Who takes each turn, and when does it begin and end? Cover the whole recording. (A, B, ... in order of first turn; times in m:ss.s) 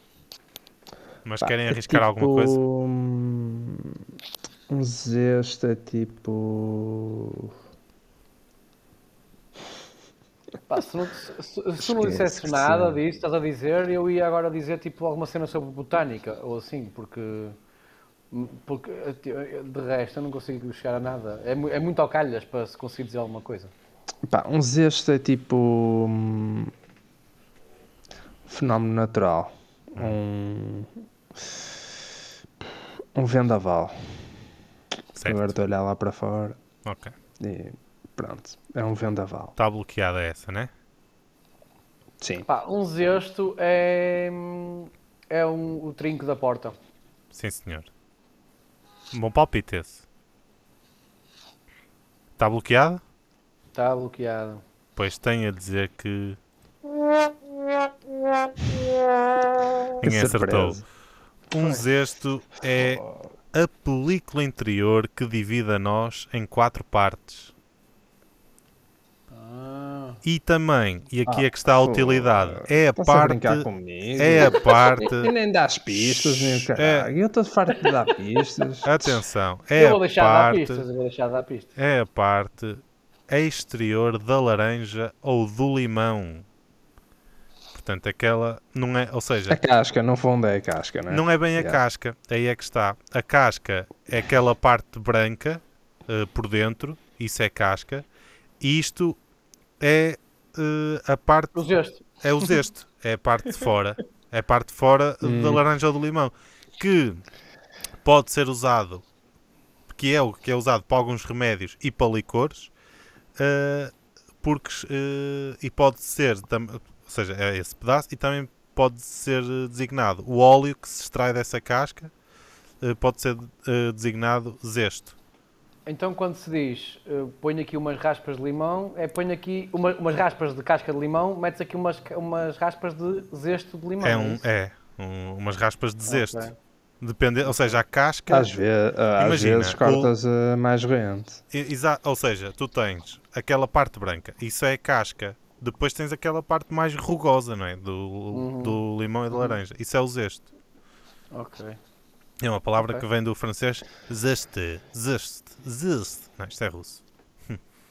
0:01.2-0:02.6 A
0:01.4-0:04.0 B
0:04.7-0:07.5 B
0:10.7-0:17.6 C
0:11.8-0:13.0 B
0:18.3-0:23.7 C
0:24.3-0:26.7 B
0:28.5-0:30.9 B
0:33.1-0:34.0 B
0:35.1-0:35.6 A
0:35.2-0:36.6 B
0:36.8-0:37.1 A
0:37.4-0:39.5 B
0:39.6-0:40.7 A
0:42.2-0:42.5 B
0:42.4-0:46.8 C
0:47.3-0:47.9 A
0:49.1-0:50.0 A
0:52.4-0:53.0 A
0:53.7-0:54.6 C
0:55.0-0:56.4 A
1:00.0-1:00.8 B
1:00.0-1:00.8 A
1:01.5-1:07.5 A
1:02.8-1:03.2 B
1:09.3-1:10.2 C
1:10.2-1:15.3 A
1:11.3-1:19.2 B
1:15.9-1:17.1 A
1:18.9-1:20.8 A
1:19.8-1:21.7 C
1:21.8-1:26.4 A
1:27.7-1:29.6 A
1:29.5-1:31.8 B
1:31.1-1:38.0 A
1:38.6-1:39.2 A
1:39.8-1:41.6 A
1:41.6-1:42.5 C
1:42.2-1:47.2 A
1:45.2-1:45.6 B
1:48.0-1:49.0 A
1:50.0-1:52.7 A
1:53.4-2:02.1 A
2:02.8-2:05.1 A
2:05.9-2:14.4 C
2:14.0-2:18.5 A
2:16.1-2:16.5 C
2:17.4-2:17.8 C
2:18.3-2:21.4 B
2:19.2-2:20.1 A
2:21.5-2:30.4 A
2:28.3-2:28.8 C
2:29.3-2:29.6 C
2:31.3-2:31.8 C
2:32.4-2:37.6 A